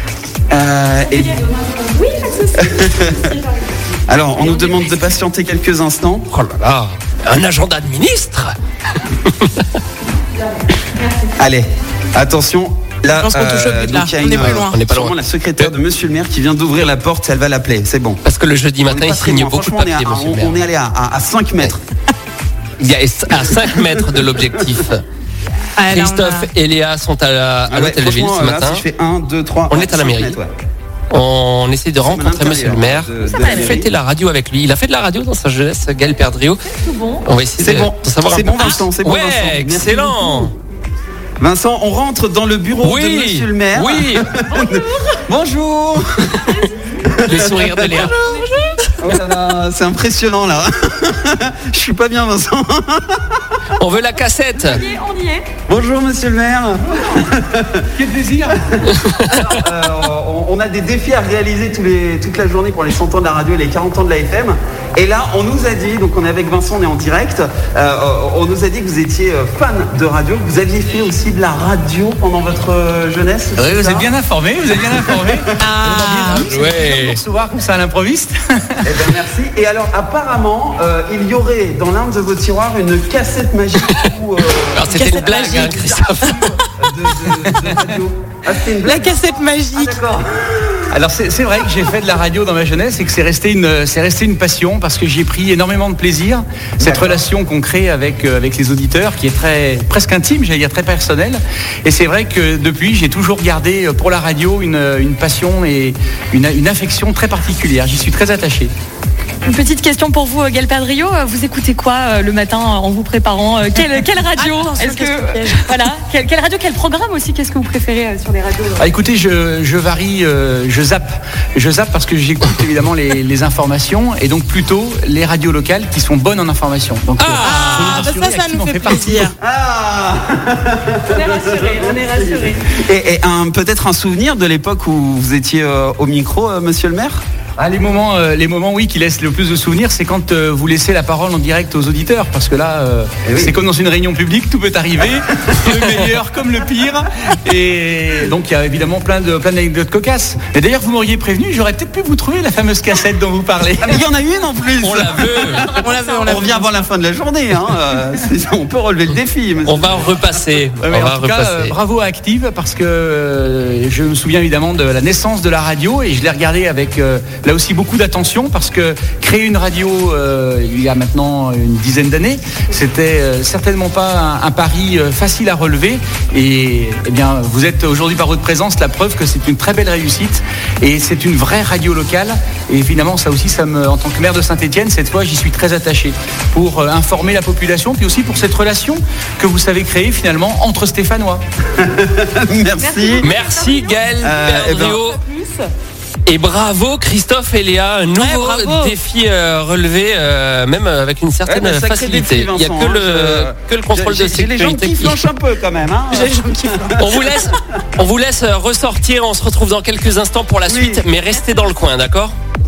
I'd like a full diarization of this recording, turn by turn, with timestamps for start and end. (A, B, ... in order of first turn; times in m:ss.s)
0:00.5-0:01.5 A
0:01.9-0:03.3 B
0:02.6-0:03.4 A
0:04.1-0:06.3 A
0:04.4-0:05.1 B
0:06.3-0:08.6 C
0:09.2-0:09.6 C
0:11.4-0:18.2 A
0:13.1-0:14.8 D
0:14.3-0:15.7 C
0:18.2-0:20.6 C
0:18.9-0:21.8 A
0:22.8-0:25.0 C
0:25.8-0:26.5 D
0:25.9-0:28.8 C
0:27.7-0:30.5 A
0:29.7-0:30.4 C
0:31.1-0:36.6 C
0:32.0-0:33.9 A
0:33.2-0:33.8 B
0:36.7-0:37.3 B
0:37.2-0:40.5 C
0:37.6-0:40.5 A
0:41.4-0:48.1 A
0:42.8-0:44.3 C
0:44.3-0:45.3 B
0:46.3-0:46.9 B
0:47.2-0:48.9 C
0:47.9-0:48.8 B
0:49.0-0:53.4 A
0:53.8-0:54.8 C
0:54.6-0:55.5 B
0:55.7-0:57.9 A
0:58.0-0:58.6 E
0:59.2-1:14.2 A
1:13.6-1:19.1 E
1:15.0-1:15.4 A
1:15.6-1:16.5 D
1:16.3-1:17.2 C
1:18.8-1:30.8 A
1:24.7-1:26.6 C
1:24.9-1:26.4 D
1:27.2-1:28.0 E
1:28.8-1:30.0 D
1:30.9-1:48.7 E
1:36.8-1:37.2 A
1:49.4-1:58.9 B
1:54.4-1:55.7 D
1:58.8-2:09.3 E
2:07.2-2:08.1 C
2:07.4-2:09.4 D
2:09.4-2:17.2 A
2:11.1-2:12.7 B
2:17.6-2:34.1 E
2:23.2-2:23.6 A
2:33.8-2:40.0 A
2:34.8-2:35.8 C
2:35.2-2:36.6 B
2:35.8-2:36.7 D
2:39.6-2:41.8 C
2:40.8-3:11.4 E
3:11.8-3:13.3 A
3:12.8-3:15.6 B
3:13.2-3:15.2 C
3:14.2-3:15.0 A
3:16.3-3:25.2 C
3:18.2-3:18.9 D
3:21.5-3:27.6 A
3:26.1-3:27.0 D
3:27.0-3:32.4 C
3:30.7-3:31.0 A